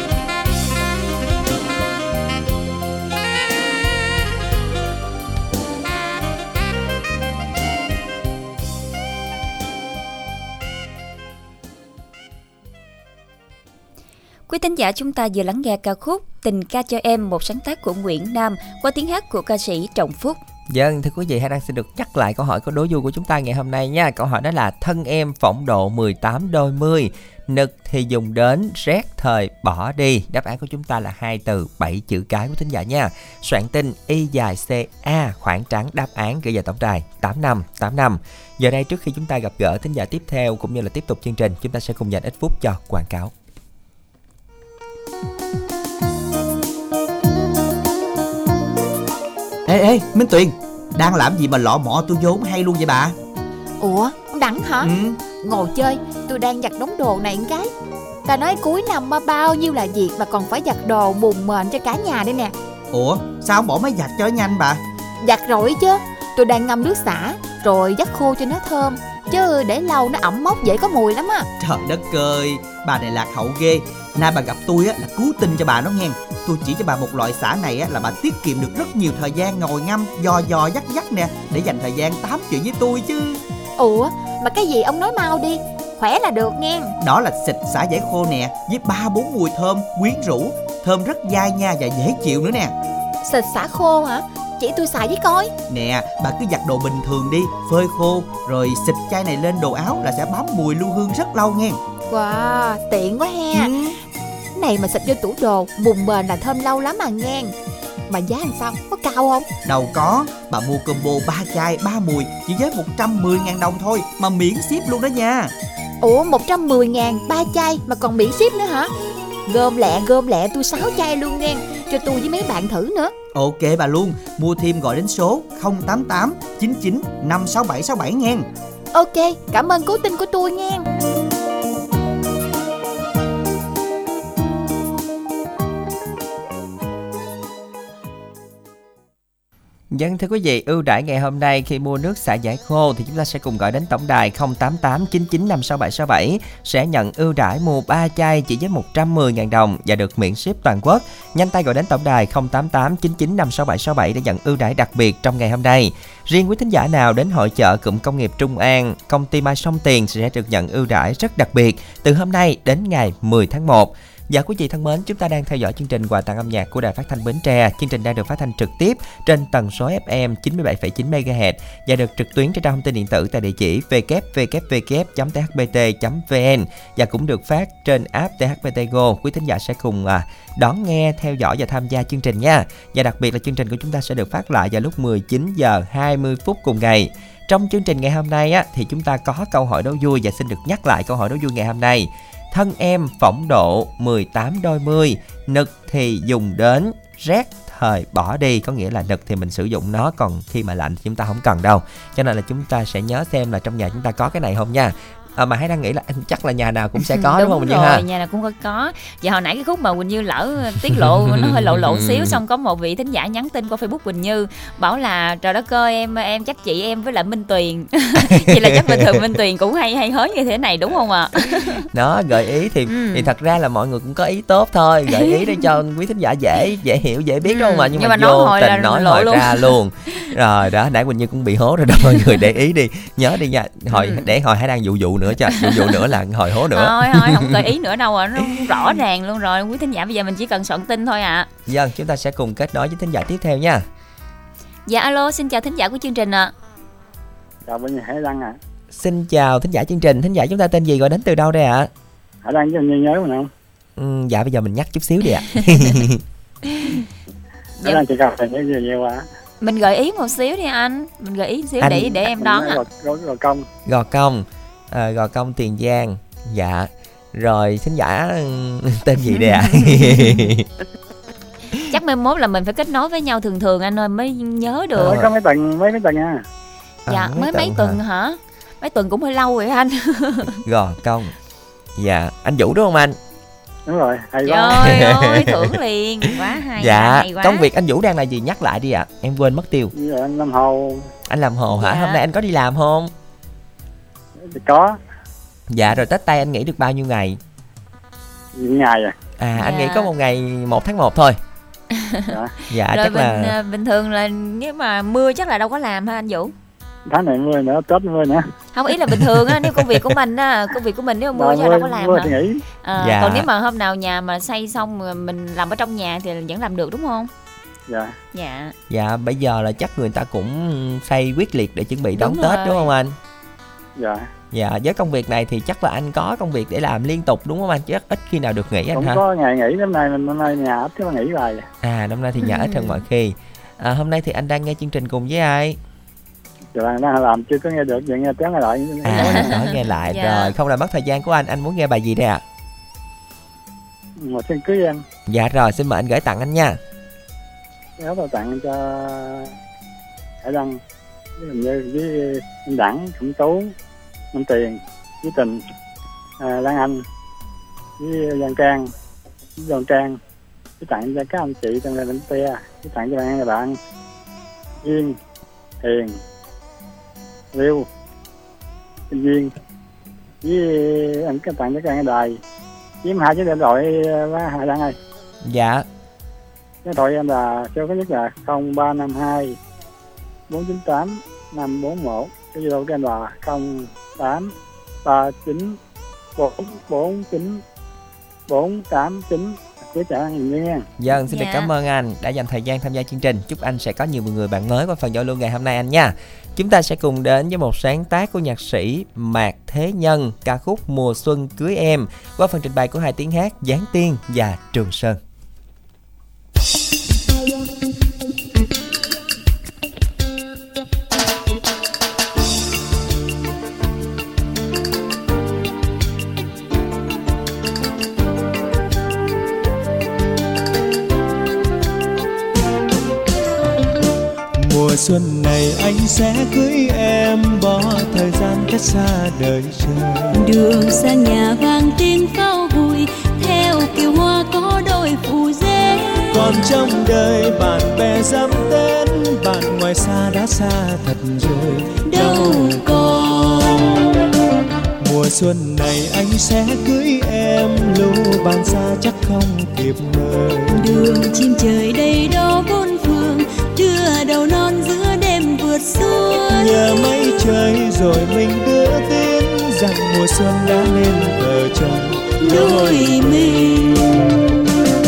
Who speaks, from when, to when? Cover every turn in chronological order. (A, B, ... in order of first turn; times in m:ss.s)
0:14.5-0:20.4 A
0:20.7-0:43.3 B
0:49.6-0:53.1 C
0:53.8-0:57.7 D
0:54.8-0:55.2 C
0:58.2-1:02.5 D
1:02.9-1:04.8 C
1:05.2-1:11.5 D
1:11.6-1:23.4 C
1:23.8-1:26.9 D
1:27.0-1:32.7 C
1:33.2-1:35.5 D
1:35.7-1:41.8 C
1:42.1-1:43.7 D
1:43.5-1:43.9 C
1:44.5-1:47.5 D
1:48.1-1:49.5 D
1:49.6-1:55.5 C
1:56.0-1:58.9 D
1:59.5-2:03.1 D
2:03.3-2:08.5 C
2:08.9-2:10.8 D
2:19.9-3:28.0 B
3:27.0-3:41.8 A
3:31.1-3:32.4 B
3:38.5-3:38.8 B
3:41.9-3:57.6 B
3:42.9-3:43.3 A
3:45.1-3:45.4 A
3:47.4-3:50.2 A
3:53.9-3:54.3 A
3:55.5-3:56.0 A
3:56.7-4:01.5 A
4:01.7-4:03.8 B
4:04.9-4:06.5 A
4:07.6-4:08.6 E
4:08.9-4:11.9 B
4:12.4-4:13.5 E
4:14.0-4:16.2 B
4:16.7-4:17.0 A
4:17.8-4:19.2 E
4:19.6-4:22.8 A
4:21.8-4:22.1 B
4:22.2-4:23.6 E
4:23.8-4:30.7 B
4:29.3-4:30.4 A
4:31.9-4:35.3 A
4:35.0-4:36.4 E
4:35.0-4:35.2 B
4:37.1-4:38.0 B
4:37.1-4:40.6 A
4:40.6-4:41.3 B
4:42.0-4:43.2 B
4:43.8-4:44.9 E
4:44.4-4:47.7 A
4:44.8-4:45.8 B
4:46.8-4:49.9 B
4:49.9-4:51.1 E
4:51.3-4:53.1 B
4:51.8-4:52.2 A
4:54.4-4:55.0 E
4:55.7-4:57.4 B
4:58.5-4:59.1 E
4:59.4-5:01.4 B
4:59.6-5:00.1 A
5:02.0-5:02.3 A
5:02.7-5:03.6 B
5:02.9-5:06.5 A
5:07.1-5:08.5 E
5:08.7-5:17.3 A
5:09.4-5:09.9 B
5:11.3-5:12.6 E
5:13.0-5:13.5 B
5:17.9-5:18.1 E
5:18.3-5:18.7 A
5:18.9-5:23.2 B
5:22.2-5:22.9 A
5:24.0-5:24.3 E
5:24.5-5:29.2 B
5:28.9-5:31.6 E
5:31.8-5:35.8 B
5:32.4-5:33.0 A
5:36.7-5:39.4 E
5:39.0-5:42.4 B
5:39.1-5:40.5 A
5:44.2-5:45.0 E
5:45.3-5:46.8 B
5:48.0-5:49.5 E
5:50.4-5:50.8 E
5:51.4-5:53.7 E
5:54.3-5:55.6 E
5:56.4-5:57.0 E
5:58.0-5:58.9 E
5:59.6-6:00.2 E
6:00.8-6:03.8 E
6:04.8-6:05.2 E
6:05.8-6:06.2 E
6:07.5-6:07.9 E
6:09.1-6:09.5 E
6:10.4-6:12.4 E
6:13.0-6:14.9 E
6:15.4-6:15.8 B
6:16.8-6:19.6 E
6:20.5-6:24.5 E
6:25.0-6:25.8 E
6:26.4-6:27.6 E
6:28.5-6:30.8 E
6:31.0-6:45.2 B
6:31.3-6:31.7 A
7:04.6-7:10.4 F
7:10.3-7:16.7 G
7:16.3-7:24.3 F
7:22.0-7:23.8 G
7:25.0-7:31.1 F
7:30.7-7:36.8 G
7:36.6-7:44.4 F
7:42.4-7:44.1 G